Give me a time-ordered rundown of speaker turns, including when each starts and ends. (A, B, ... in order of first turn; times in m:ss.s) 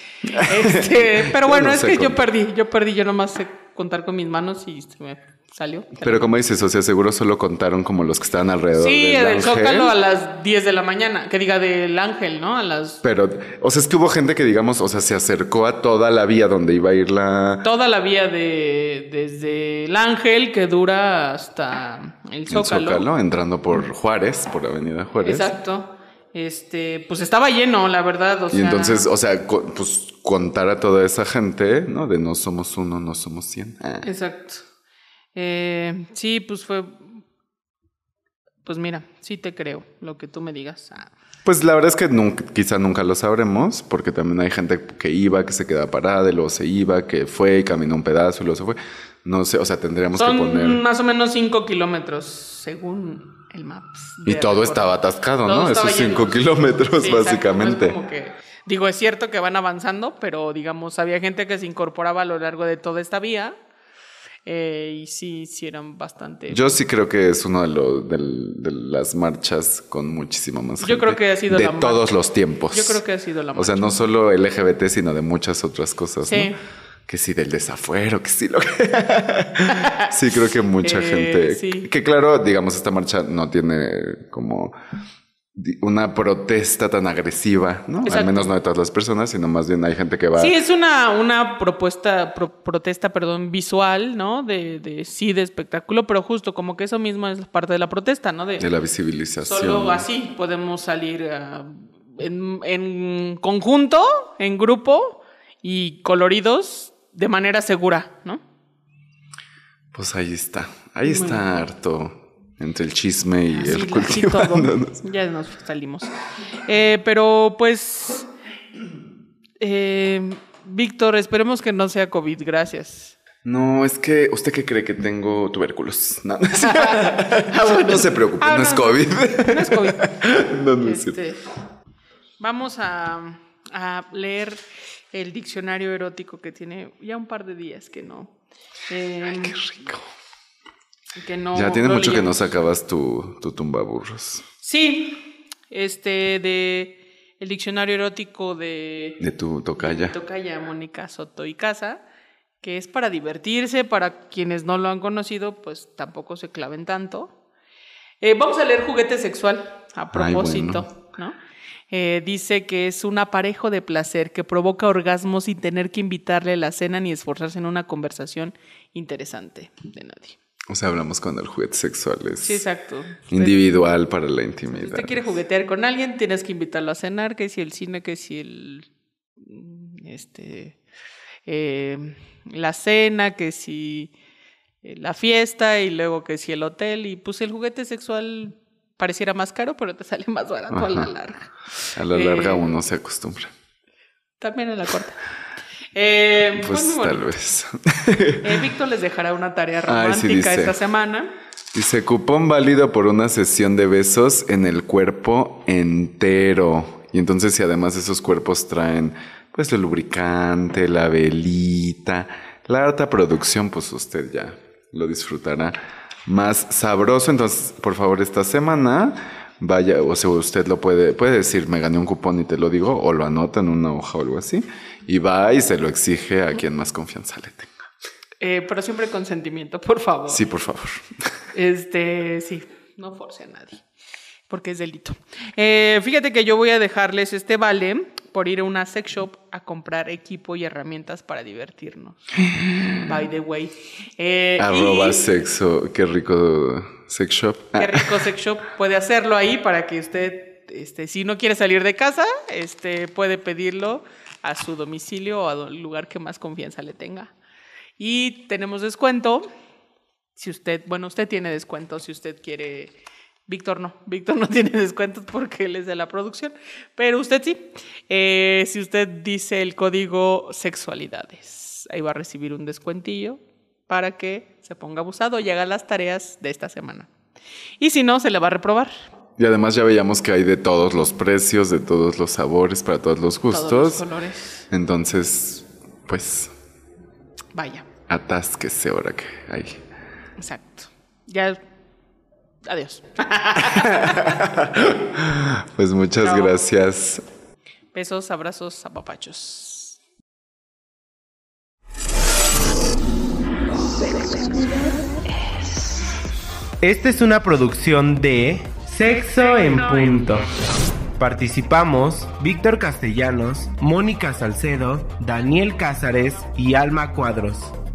0:00.2-0:02.3 A
0:00.3-0:06.3 B
0:06.0-0:09.9 A
0:08.8-0:13.0 B
0:13.0-0:17.6 A
0:17.6-0:23.1 B
0:22.5-0:25.5 A
0:25.2-0:29.1 B
0:28.5-0:34.1 A
0:34.0-0:34.6 B
0:35.4-0:37.2 B
0:38.6-0:41.1 B
0:41.4-0:50.8 A
0:50.2-0:54.9 B
0:54.2-0:58.0 A
0:55.4-0:56.4 B
0:57.0-1:03.6 B
1:04.5-1:06.6 B
1:06.5-1:13.0 A
1:10.8-1:12.1 B
1:12.7-1:14.0 B
1:13.6-1:16.5 A
1:16.2-1:16.6 B
1:17.1-1:24.8 A
1:19.7-1:20.1 B
1:20.8-1:21.9 B
1:25.5-1:30.6 A
1:28.0-1:28.5 B
1:30.4-1:38.7 B
1:38.6-1:40.0 A
1:39.4-1:48.4 B
1:49.9-1:55.0 A
1:51.1-1:51.4 B
1:53.5-1:58.3 B
1:59.6-2:03.2 B
2:03.4-2:11.2 A
2:06.6-2:10.2 B
2:10.8-2:11.4 B
2:12.4-2:18.3 B
2:18.9-2:19.6 B
2:19.3-2:20.1 A
2:21.2-2:22.4 B
2:21.6-2:24.4 A
2:24.6-2:29.2 B
2:29.2-2:30.2 A
2:29.8-2:32.0 B
2:32.6-2:37.4 B
2:38.2-2:41.4 B
2:40.1-2:40.9 A
2:41.9-2:50.4 B
2:50.7-2:52.6 A
2:52.4-2:53.6 B
2:53.3-2:55.2 A
2:54.7-2:58.9 B
2:59.4-3:00.8 B
3:01.5-3:04.1 B
3:04.8-3:12.8 B
3:10.7-3:11.1 A
3:12.0-3:13.5 A
3:14.4-3:15.2 B
3:16.0-3:17.3 B
3:16.5-3:18.7 A
3:18.4-3:21.3 B
3:19.9-3:20.8 A
3:21.7-3:47.7 A
3:48.4-3:50.4 B
3:50.3-3:51.3 A
3:51.5-3:53.8 B
3:54.5-4:02.4 B
4:02.5-4:03.1 A
4:03.0-4:05.3 B
4:04.6-4:08.1 A
4:07.8-4:17.3 B
4:18.0-4:19.5 B
4:20.4-4:23.0 B
4:23.5-4:37.1 B
4:37.8-4:38.9 B
4:39.4-4:44.0 A
4:43.5-4:44.7 B
4:44.7-4:46.5 A
4:47.6-4:47.9 B
4:48.1-4:49.8 A
4:50.4-4:51.6 B
4:52.7-4:54.4 B
4:53.6-4:57.2 A
4:56.2-4:56.6 B
4:57.9-5:00.0 B
5:06.8-5:10.5 C
5:11.2-5:17.7 C